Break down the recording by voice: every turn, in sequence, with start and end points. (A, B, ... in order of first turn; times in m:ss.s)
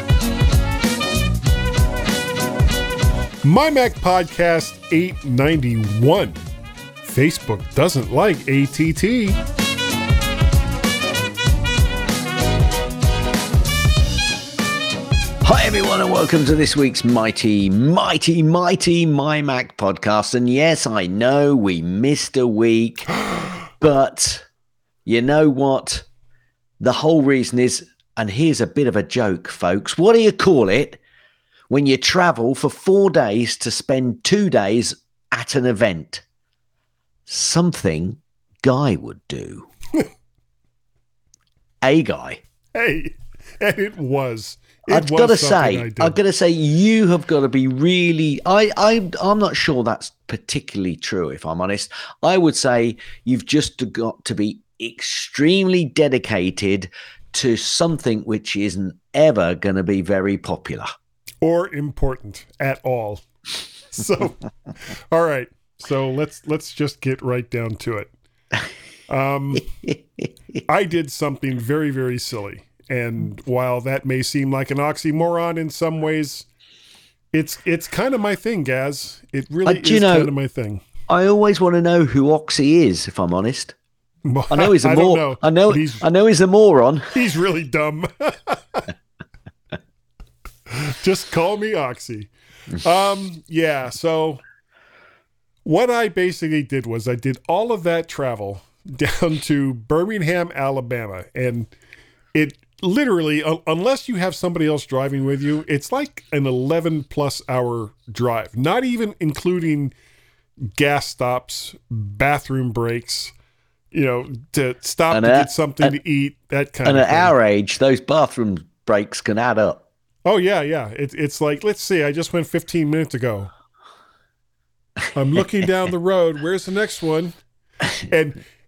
0:03.4-0:06.4 A
0:07.0-0:09.4 A
0:15.4-0:23.1 B
0:23.8-0:24.4 B
0:25.0-0:26.0 B
0:26.8-0:31.0 B
0:31.7-0:36.2 B
0:37.3-0:39.7 B
0:41.8-0:42.4 B
0:42.7-0:46.2 A
0:44.9-1:00.9 B
1:01.4-1:03.2 A
1:03.9-1:04.4 A
1:05.1-1:08.1 A
1:09.1-1:09.7 A
1:09.8-1:10.3 B
1:10.7-1:16.4 A
1:17.3-1:20.8 A
1:19.6-1:20.3 B
1:21.1-1:23.7 B
1:24.2-1:26.1 A
1:24.5-1:27.1 B
1:27.1-1:28.8 A
1:30.7-1:34.4 A
1:35.6-1:41.7 A
1:42.3-1:49.9 A
1:50.7-1:53.3 A
1:53.9-1:57.3 A
1:55.1-1:56.0 B
1:56.8-1:59.8 B
2:00.2-2:03.5 A
2:05.1-2:07.4 A
2:08.1-2:08.4 A